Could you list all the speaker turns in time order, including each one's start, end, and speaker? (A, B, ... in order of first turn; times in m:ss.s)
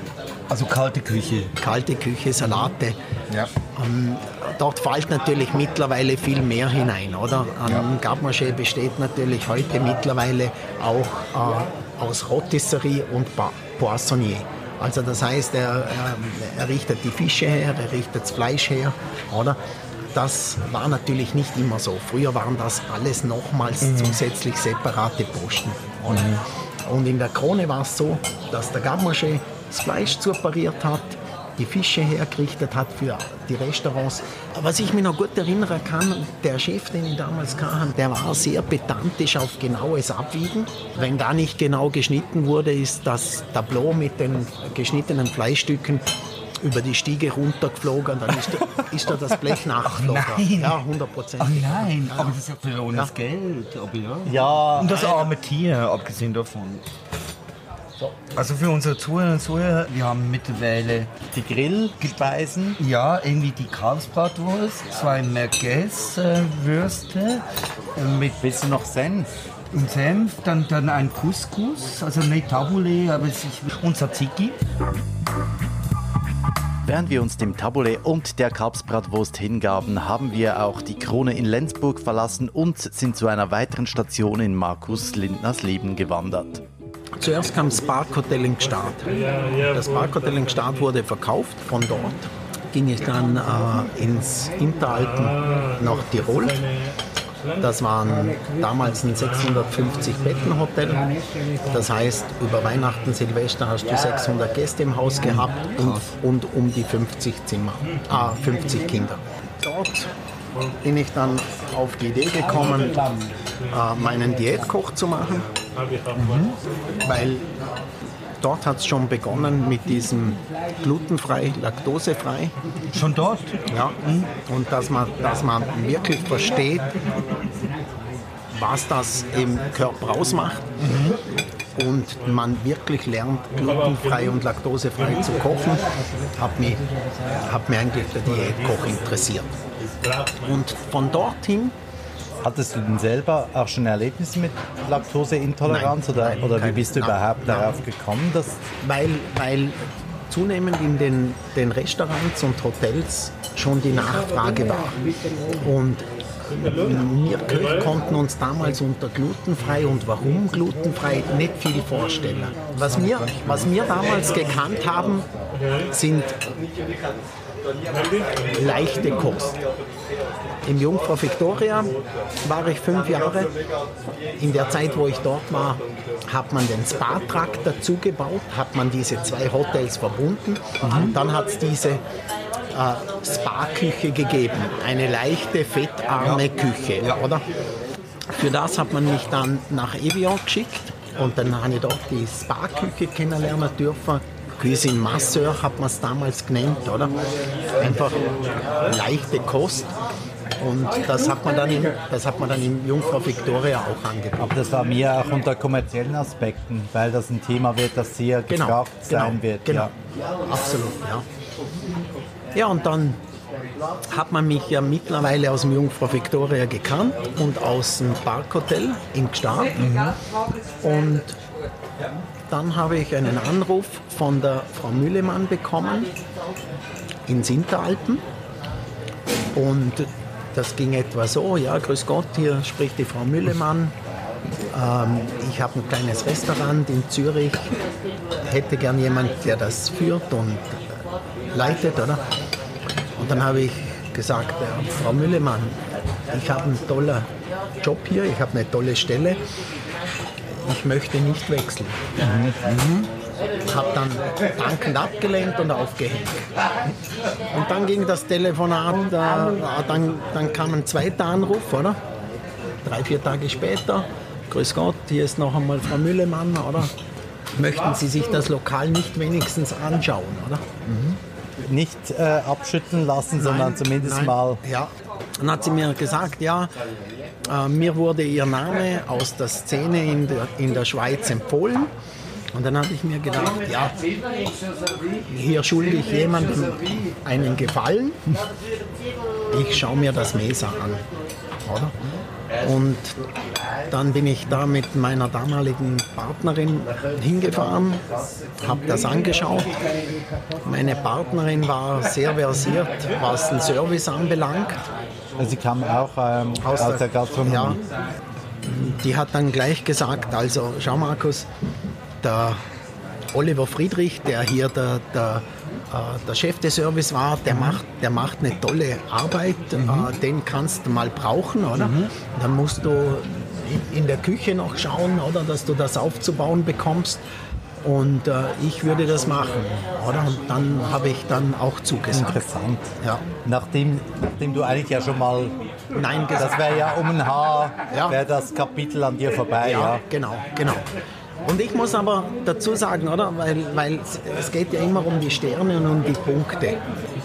0:00.5-0:01.5 A
0:01.6-0:03.0 B
0:03.7-0:19.6 B
0:20.1-0:26.3 B
0:23.8-0:24.2 A
0:26.1-0:26.4 A
0:26.9-0:46.0 B
0:46.6-0:52.4 B
0:49.8-0:50.8 A
0:51.4-0:56.8 A
0:54.2-0:55.3 C
0:58.2-1:01.1 A
1:01.3-1:02.8 C
1:02.8-1:07.4 A
1:08.0-1:08.2 A
1:08.2-1:09.4 C
1:09.7-1:14.6 A
1:16.8-1:26.6 C
1:27.2-1:29.1 B
1:29.7-1:36.6 B
1:37.6-1:41.1 B
1:41.7-1:50.1 B
1:45.8-1:46.1 A
1:50.8-1:55.4 B
1:56.1-1:56.5 B
1:57.0-1:57.4 B
1:58.4-2:02.5 B
2:02.9-2:04.3 A
2:03.7-2:06.9 B
2:08.5-2:10.8 B
2:10.8-2:11.2 A
2:11.8-2:15.8 B
2:16.4-2:19.5 B
2:20.4-2:21.7 B
2:22.4-2:28.7 C
2:25.6-2:27.7 B
2:28.8-2:45.3 B
2:45.9-2:46.4 B
2:48.5-2:49.6 B
2:50.6-2:51.9 B
2:52.4-2:53.5 B
2:54.4-3:02.0 B
3:00.8-3:01.1 A
3:02.7-3:07.4 B
3:08.4-3:17.1 B
3:17.8-3:18.2 B
3:18.8-3:19.9 B
3:20.6-3:24.5 B
3:24.4-3:29.9 C
3:28.5-3:29.9 B
3:30.5-3:31.2 B
3:32.5-3:33.2 B
3:34.1-3:39.9 B
3:39.8-3:40.1 A
3:40.8-3:41.4 B
3:42.5-3:46.1 B
3:47.3-3:48.2 B
3:49.6-3:53.9 B
3:54.7-3:57.7 B
3:58.4-4:00.8 B
4:01.5-4:02.2 B
4:03.2-4:05.8 B
4:06.3-4:07.3 B
4:07.8-4:09.4 B
4:10.6-4:12.0 B
4:12.2-4:13.1 A
4:13.7-4:16.5 B
4:17.5-4:22.0 B
4:22.8-4:26.9 B
4:27.6-4:31.2 B
4:31.6-4:34.6 C
4:33.4-4:36.7 B
4:37.5-4:41.9 B
4:42.5-4:44.0 B
4:45.3-4:48.4 B
4:49.5-4:51.0 B
4:51.6-4:51.9 B
4:52.6-4:53.2 B
4:53.9-4:58.0 B
4:58.6-4:59.8 B
5:00.6-5:04.9 B
5:05.4-5:07.8 C
5:06.6-5:07.8 B
5:08.6-5:11.5 B
5:12.2-5:12.6 B
5:13.3-5:27.2 B
5:17.5-5:17.8 A
5:19.8-5:20.1 A
5:21.8-5:22.1 A
5:27.8-5:32.4 B
5:32.1-5:35.6 C
5:33.0-5:33.3 B
5:35.9-5:36.7 B
5:36.4-5:40.0 C
5:37.9-5:38.2 B
5:39.6-5:40.9 B
5:41.4-5:46.8 B